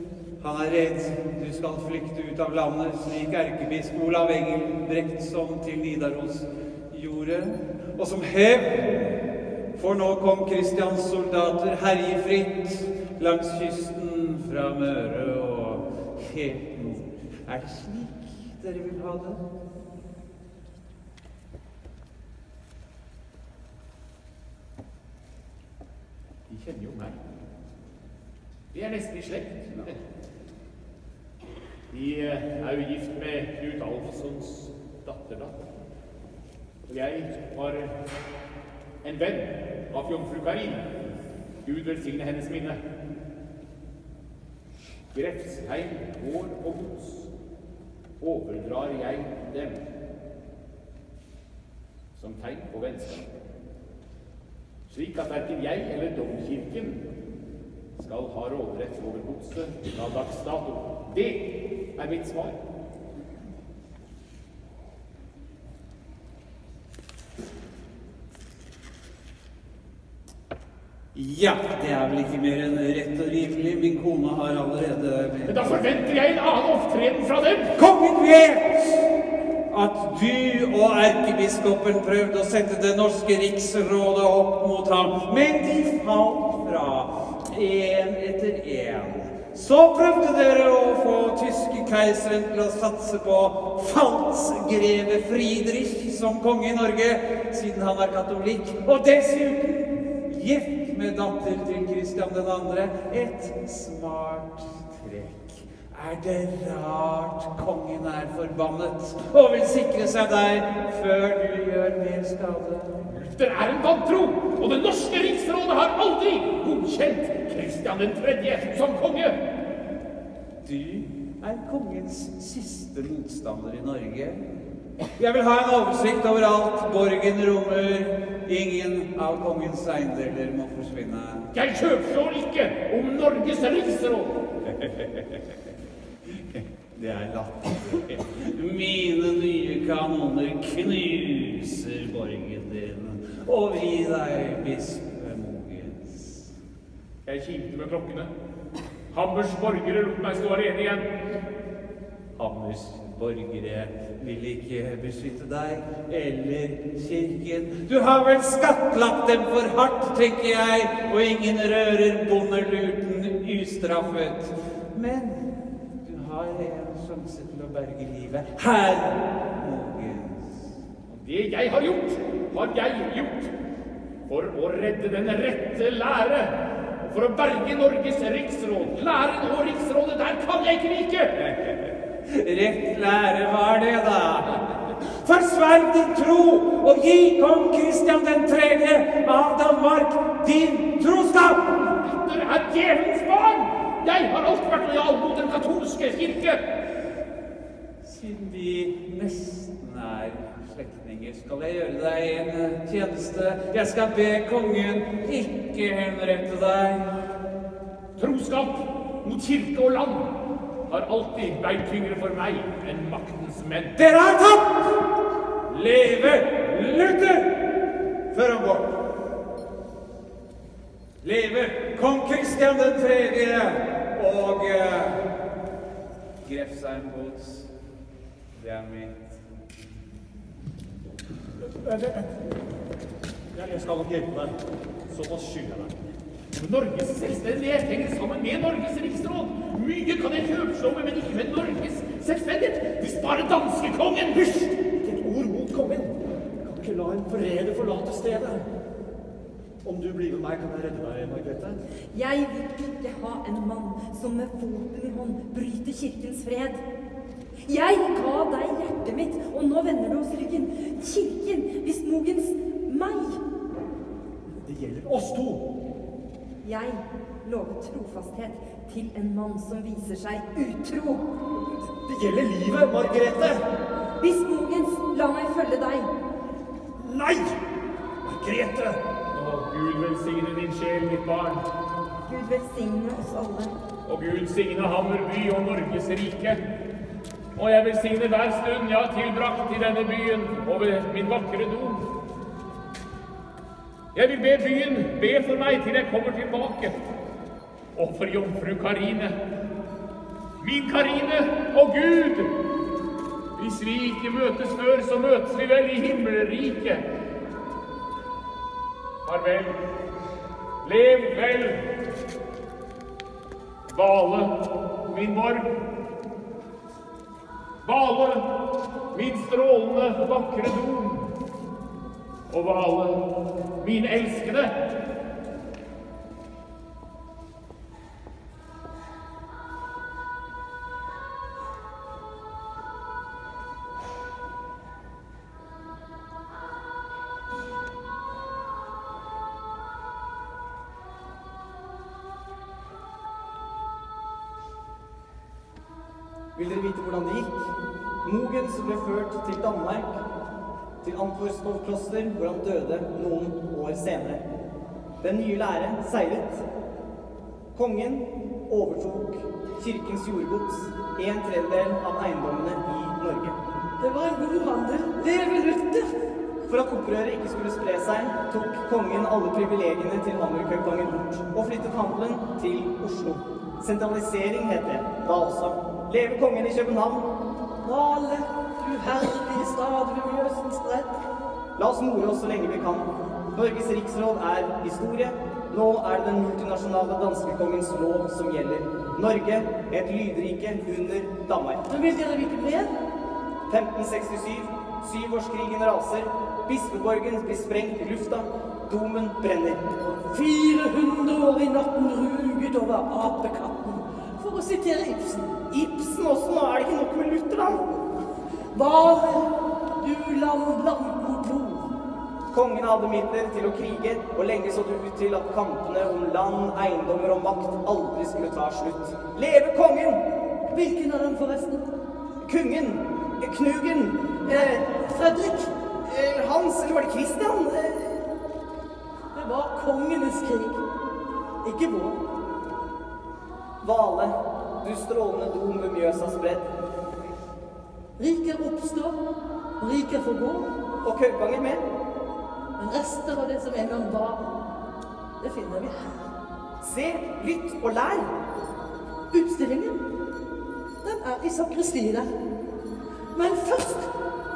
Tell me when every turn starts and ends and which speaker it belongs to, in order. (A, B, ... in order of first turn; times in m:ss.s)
0:00.4-0:09.2 A
0:09.7-0:19.4 A
0:26.5-0:27.2 B
0:28.7-0:30.0 B
0:31.9-0:35.7 B
0:36.9-0:38.0 B
0:39.0-0:40.9 B
0:41.6-0:42.8 B
0:45.1-0:47.3 B
0:48.2-0:49.8 B
0:52.2-0:53.3 B
0:54.9-0:57.0 B
0:58.0-1:02.6 B
1:11.1-1:15.8 A
1:15.5-1:17.7 B
1:17.8-1:19.1 A
1:19.7-1:53.0 A
1:53.0-1:59.4 B
2:00.6-2:04.4 A
2:05.2-2:11.5 A
2:11.5-2:14.4 B
2:14.7-2:15.4 A
2:16.5-2:26.5 A
2:27.3-2:28.3 B
2:29.1-2:31.1 B
2:32.4-2:50.7 A
2:51.1-2:53.5 B
2:54.3-3:01.3 B
3:01.4-3:11.6 A
3:11.7-3:16.6 B
3:18.0-3:27.1 A
3:28.2-3:30.3 B
3:30.9-3:34.0 B
3:34.0-3:34.9 A
3:35.7-3:37.6 A
3:38.3-3:39.0 A
3:41.2-3:45.3 A
3:46.4-3:47.7 A
3:48.5-3:49.4 A
3:51.6-3:52.3 C
3:53.5-3:56.1 C
3:56.5-4:04.8 B
4:05.0-4:08.7 C
4:09.8-4:11.8 C
4:12.1-4:16.8 D
4:17.6-4:23.4 D
4:24.5-4:25.6 C
4:26.6-4:31.3 D
4:32.0-4:33.6 C
4:34.2-4:36.1 D
4:37.0-4:37.6 C
4:38.2-4:39.0 C
4:39.3-4:41.6 B
4:42.3-4:43.7 D
4:44.0-4:46.6 B
4:47.6-4:52.1 B
4:54.1-4:57.0 B
4:58.0-4:59.4 B
5:00.6-5:02.5 B
5:03.6-5:07.0 B
5:09.2-5:09.8 B
5:10.8-5:11.8 B
5:13.9-5:14.6 B
5:15.1-5:15.7 B
5:17.8-5:18.5 B
5:19.1-5:21.3 B
5:22.5-5:23.3 B
5:23.8-5:24.7 B
5:46.6-5:50.2 E
5:51.0-5:54.4 E
5:55.2-5:56.7 E
5:57.8-6:03.6 E
6:04.0-6:06.2 F
6:06.7-6:17.3 E
6:17.8-6:21.2 F
6:21.8-6:31.8 E
6:31.9-6:32.9 F
6:33.7-6:39.9 E
6:40.0-6:45.6 F
6:45.7-6:48.0 E
6:48.7-6:51.9 F
6:52.5-7:00.2 E
7:00.7-7:01.8 F
7:02.4-7:04.9 E
7:04.4-7:05.7 F
7:06.0-7:08.3 E
7:09.3-7:10.8 F
7:11.6-7:12.2 F
7:13.8-7:16.7 E
7:18.2-7:19.2 F
7:19.8-7:20.7 F
7:21.0-7:21.9 E
7:22.8-7:24.6 F
7:25.4-7:26.2 F
7:26.8-7:28.3 E
7:29.3-7:30.0 F
7:31.0-7:32.3 F
7:33.4-7:34.1 F